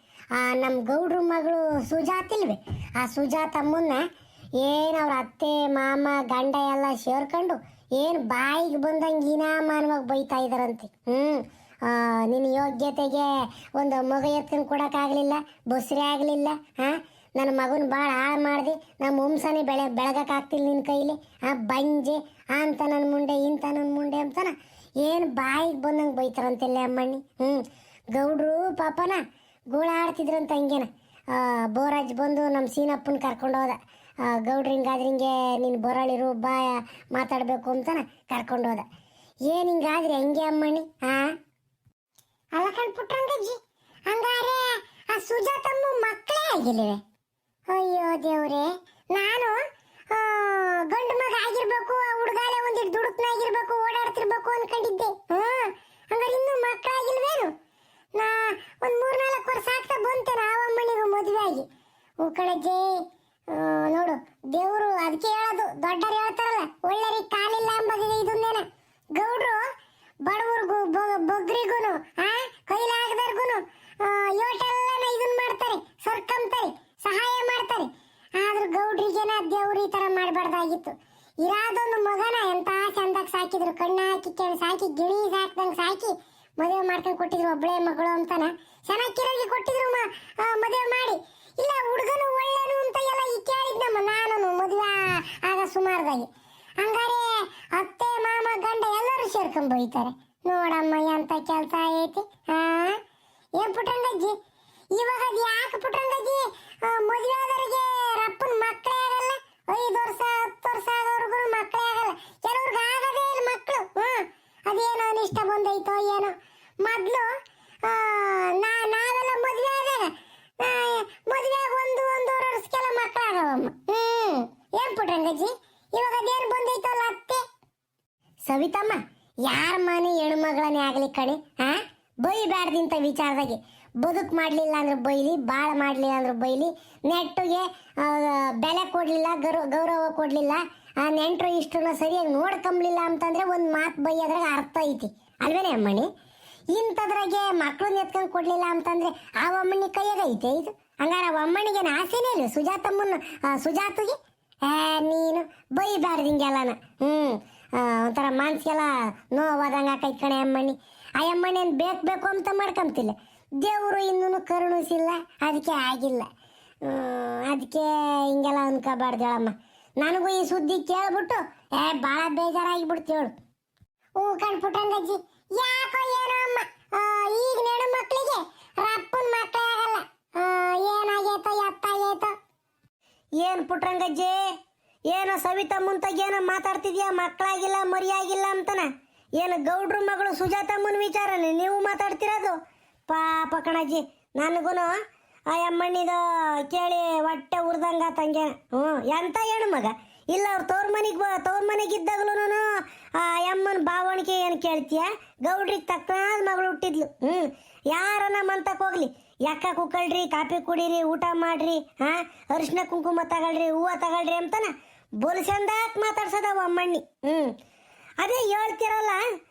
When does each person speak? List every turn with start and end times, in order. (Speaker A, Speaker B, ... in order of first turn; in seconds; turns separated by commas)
Speaker A: 0.4-4.0, Speaker A: 4.6-27.6, Speaker A: 28.1-29.2, Speaker A: 29.7-38.8, Speaker A: 39.5-41.3, Speaker A: 42.5-43.6, Speaker A: 44.1-47.0, Speaker A: 47.7-49.5, Speaker A: 50.1-57.5, Speaker A: 58.1-61.7, Speaker A: 62.2-69.6, Speaker A: 70.2-96.3, Speaker A: 96.8-103.0, Speaker A: 103.6-104.4, Speaker A: 104.9-117.3, Speaker A: 117.8-127.4, Speaker A: 128.5-146.1, Speaker A: 146.7-166.3, Speaker A: 166.8-173.3, Speaker A: 174.2-182.3, Speaker A: 183.4-184.4, Speaker A: 185.1-192.6, Speaker A: 193.1-194.9, Speaker A: 195.5-202.7, Speaker A: 203.2-217.5, Speaker A: 218.2-219.2